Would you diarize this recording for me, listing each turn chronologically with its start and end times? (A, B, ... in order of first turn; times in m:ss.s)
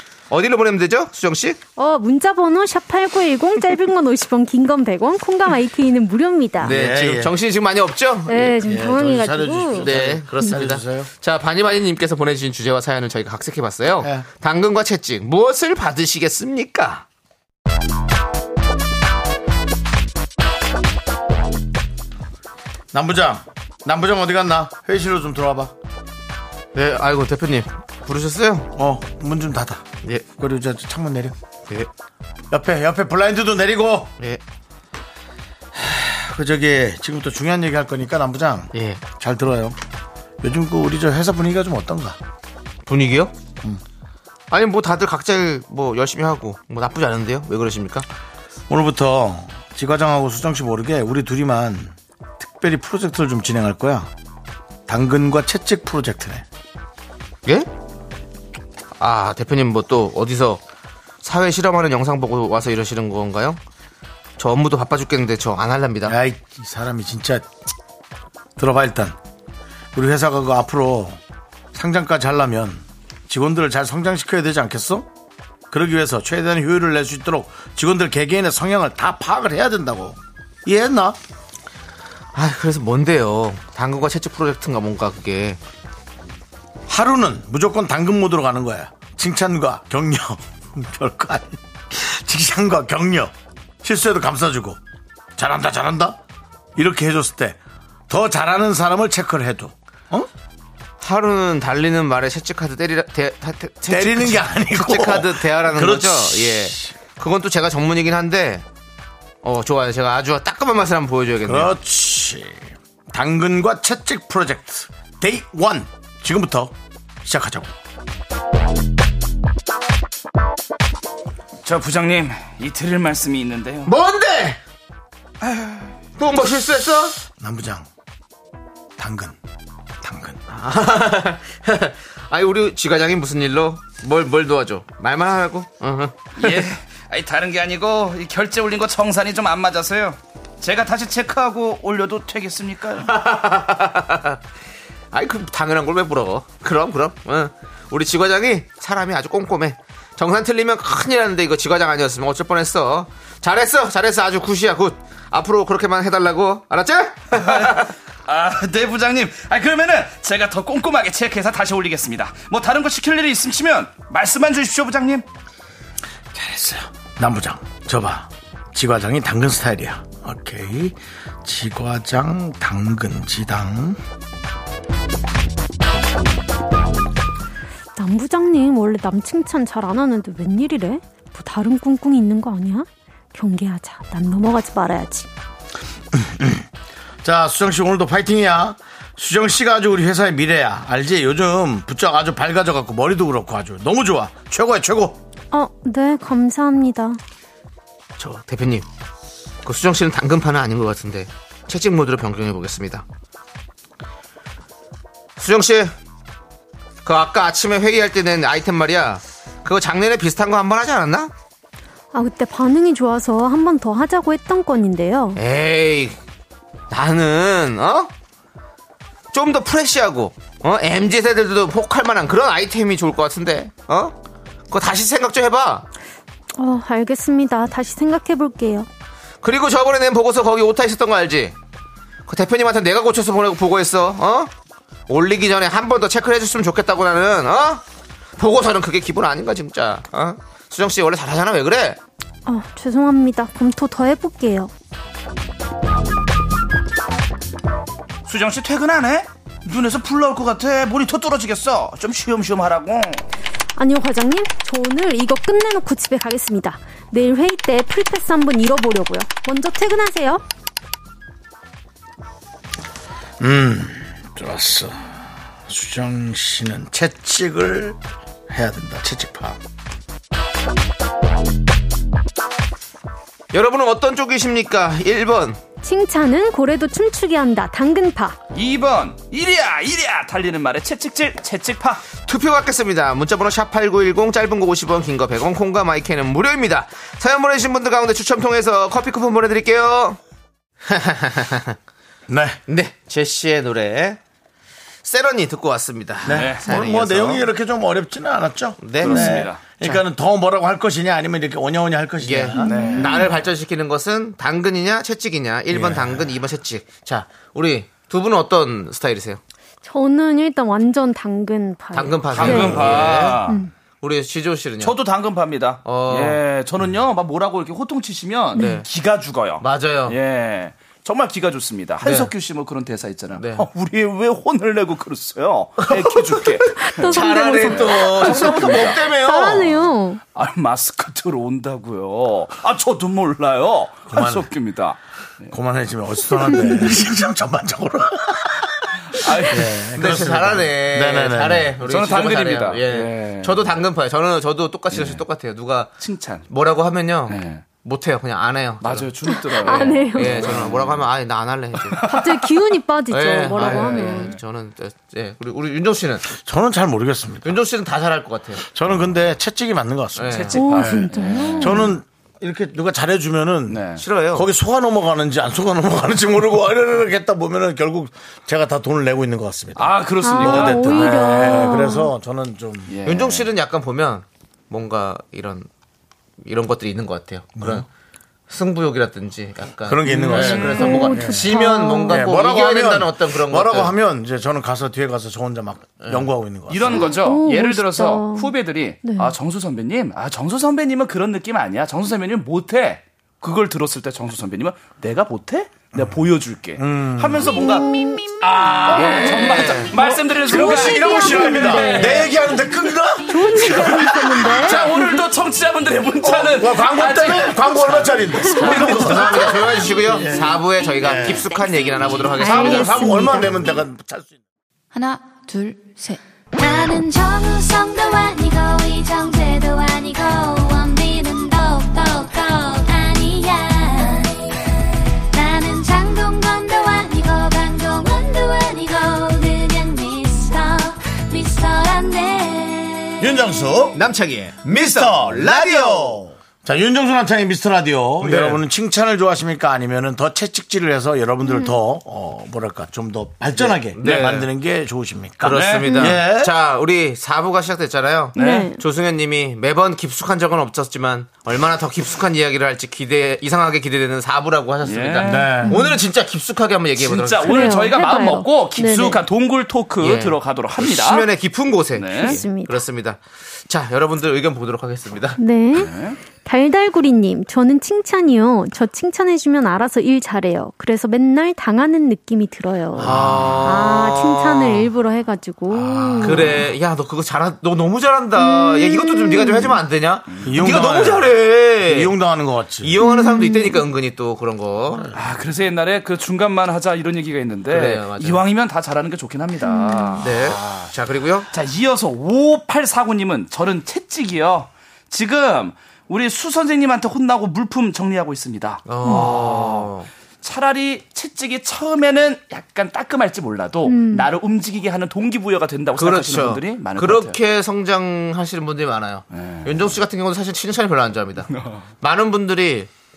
0:00.3-0:01.6 A
0:01.8-0:06.7 B
0:06.6-0:08.6 A
0:06.6-0:07.3 C
0:08.3-0:09.9 B
0:08.6-0:11.1 C
0:09.7-0:17.0 A
0:14.0-0:14.2 C
0:22.9-0:25.7 C
0:26.7-0:28.7 A
0:28.7-0:29.8 C
0:30.3-0:31.3 C
0:32.5-0:34.1 C
0:35.7-0:39.8 C
0:38.7-0:39.0 A
0:40.4-0:42.2 C
0:42.8-0:43.3 A
0:44.5-0:48.0 A
0:48.7-0:54.1 C
0:54.9-0:56.4 C
0:59.0-1:00.6 A
1:01.2-1:03.6 A
1:04.4-1:06.2 A
1:06.0-1:07.4 C
1:08.6-1:09.1 C
1:09.9-1:11.2 C
1:11.7-1:15.1 C
1:15.7-1:21.2 C
1:22.3-1:25.6 A
1:26.9-1:33.3 C
1:33.8-1:34.8 C
1:35.4-1:36.2 C
1:36.8-1:37.6 C
1:38.1-1:40.3 C
1:41.0-1:48.6 A
1:43.9-1:46.9 C
1:49.4-1:51.7 A
1:51.4-1:57.7 C
2:01.6-2:03.9 D
2:03.8-2:04.6 A
2:05.5-2:05.8 D
2:06.2-2:07.2 A
2:07.3-2:07.9 C
2:09.0-2:09.4 C
2:10.0-2:10.4 C
2:10.5-2:16.6 A
2:16.4-2:23.1 D
2:23.0-2:24.4 A
2:25.1-2:37.9 A
2:37.3-2:45.2 D
2:46.3-2:54.0 C
2:58.0-3:05.3 B
3:06.1-3:06.6 C
3:07.2-3:15.2 C
3:15.5-3:17.2 B
3:18.2-3:18.8 A
3:19.6-3:23.0 A
3:25.4-3:25.9 A
3:27.0-3:31.3 A
3:32.1-3:35.4 B
3:35.4-3:36.2 A
3:36.9-3:38.1 A
3:39.3-3:44.1 A
3:44.7-3:45.8 A
3:46.6-3:48.9 B
3:49.4-3:51.5 A
3:52.3-3:54.5 A
3:55.1-3:57.8 A
3:58.4-4:02.0 A
4:02.4-4:04.7 B
4:08.2-4:13.2 D
4:13.8-4:20.4 B
4:23.4-4:29.6 C
4:33.5-4:35.6 A
4:35.8-4:38.4 B
4:38.5-4:42.1 D
4:42.2-4:50.2 A
4:50.8-4:51.8 A
4:52.3-4:52.6 C
4:52.7-4:54.2 A
4:55.0-4:57.4 A
4:56.2-4:56.8 D
4:56.2-5:03.3 C
4:58.8-5:00.0 A
4:59.0-4:59.6 D
5:02.2-5:09.4 A
5:02.6-5:03.2 B
5:05.7-5:06.3 C
5:09.8-5:12.9 B
5:11.9-5:13.4 A
5:12.3-5:13.6 D
5:13.4-5:13.7 B
5:14.0-5:15.0 A
5:14.8-5:28.4 D
5:15.8-5:16.4 A
5:18.6-5:18.8 A
5:19.6-5:20.2 A
5:22.0-5:22.3 A
5:23.3-5:23.7 A
5:25.9-5:29.7 A
5:26.9-5:30.2 B
5:28.3-5:28.9 C
5:30.3-5:35.5 D
5:34.1-5:34.5 C
5:35.5-5:41.7 C
5:39.2-5:39.8 D
5:39.9-5:45.9 A
5:41.8-5:43.7 D
5:44.9-5:45.2 D
5:46.0-5:46.4 D
5:46.5-5:52.1 A
5:47.3-5:47.6 D
5:48.8-5:51.0 D
5:49.3-5:50.4 B
5:51.9-5:52.5 D
5:52.1-5:54.3 B
5:53.1-5:56.3 A
5:53.6-5:54.4 D
5:56.3-5:57.6 C
5:57.4-5:58.6 A
5:58.6-6:03.8 C
6:00.2-6:00.8 A
6:00.3-6:01.9 D
6:00.6-6:01.9 B
6:03.7-6:04.0 D
6:04.0-6:04.5 A
6:04.3-6:12.9 C
6:09.8-6:11.3 D
6:10.2-6:12.1 B
6:12.9-6:13.5 D
6:13.0-6:15.7 A
6:16.4-6:17.9 A
6:17.6-6:17.8 C
6:18.5-6:23.9 A
6:19.8-6:21.5 C
6:20.0-6:21.0 D
6:20.5-6:22.2 B
6:22.1-6:27.0 C
6:26.0-6:26.3 A
6:26.7-6:37.9 D
6:26.9-6:29.3 B
6:36.8-6:37.6 C
6:37.5-6:38.2 B
6:38.5-6:39.2 C
6:38.5-6:42.3 D
6:38.8-6:39.9 A
6:39.9-6:42.3 B
6:40.4-6:44.9 C
6:43.3-6:45.2 B
6:44.5-6:49.5 D
6:46.2-6:51.5 C
6:48.5-6:53.5 A
6:52.4-6:53.6 B
6:52.5-6:54.4 C
6:56.5-7:04.4 E
7:05.3-7:13.3 E
7:13.2-7:14.0 C
7:13.9-7:16.2 A
7:14.6-7:26.5 C
7:18.2-7:18.6 A
7:21.4-7:21.7 B
7:23.6-7:24.5 A
7:24.0-7:24.3 D
7:25.4-7:37.9 A
7:25.4-7:26.2 D
7:28.3-7:28.7 D
7:28.4-7:28.8 B
7:34.8-7:35.6 D
7:35.2-7:35.8 C
7:35.6-7:35.9 B
7:37.0-7:41.3 D
7:37.4-7:39.2 B
7:40.0-7:45.4 A
7:41.9-7:42.4 D
7:42.2-7:42.8 B
7:45.4-7:56.5 B
7:45.8-7:46.2 D
7:53.0-7:53.8 C
7:53.0-7:54.9 A
7:53.1-7:53.5 D
7:55.7-7:56.6 D
7:56.2-8:02.2 A
7:58.3-7:59.8 B
8:00.3-8:00.6 D
8:00.4-8:03.0 C
8:02.8-8:05.1 A
8:03.0-8:03.8 B
8:05.1-8:10.9 D
8:07.7-8:08.4 A
8:09.6-8:10.2 B
8:10.2-8:11.5 A
8:11.5-8:19.9 D
8:18.8-8:20.1 A
8:20.4-8:27.4 D
8:23.8-8:24.3 B
8:26.0-8:32.9 A
8:29.3-8:29.9 D
8:31.5-8:31.8 D